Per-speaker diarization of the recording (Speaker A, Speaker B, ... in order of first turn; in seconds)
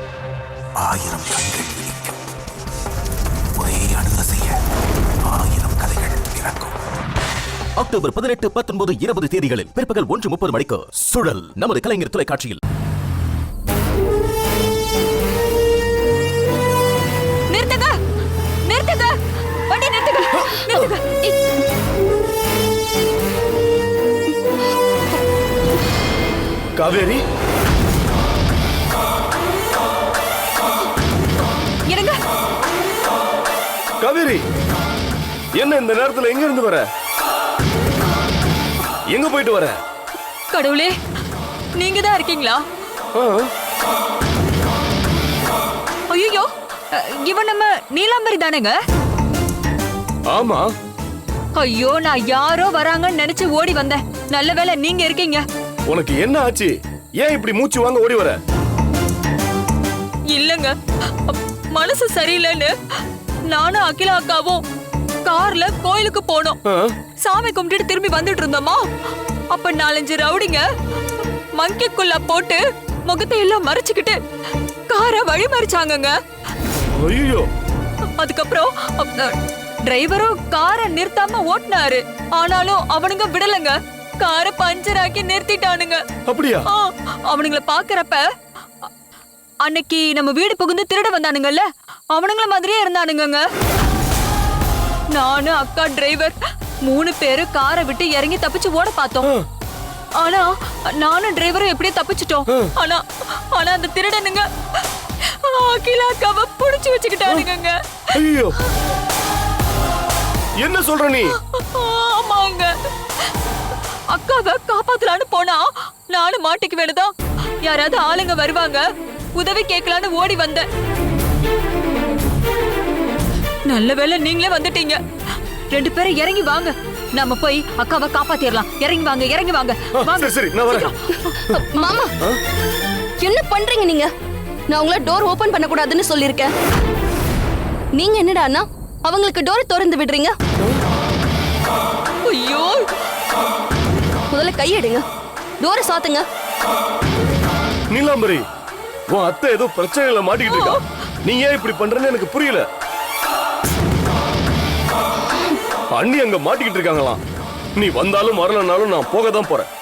Speaker A: 0.8-2.2, 3.5-4.6, 5.2-6.8
Speaker B: 7.8-12.6
Speaker C: 17.5-17.9, 18.6-19.2, 19.7-21.0, 31.9-32.2, 40.5-41.0, 41.8-42.6, 46.1-48.8, 51.6-55.4, 60.3-62.7, 63.5-64.6, 65.3-66.6, 67.2-68.8, 69.5-70.7, 71.6-74.2, 74.9-76.1, 78.2-86.0, 86.7-88.2, 89.7-93.5, 95.1-99.3, 100.2-104.5, 105.2-108.2, 111.5-112.7, 114.1-117.1, 117.6-118.8, 119.3-120.7, 123.7-125.0, 125.7-131.9, 142.2-142.9, 150.5-150.8
Speaker D: 26.8-27.2, 34.0-34.5, 35.5-36.9, 39.1-39.8, 43.1-43.5, 50.3-50.7, 55.9-58.4, 66.7-67.0, 76.9-77.5, 86.3-86.7, 108.2-108.6, 110.6-111.4, 129.9-130.9, 147.9-148.4, 149.1-152.7, 155.9-157.2, 157.8-159.7
Speaker E: 131.5-132.1, 133.2-134.1, 134.7-136.5, 137.9-140.4, 144.3-145.1, 145.6-146.3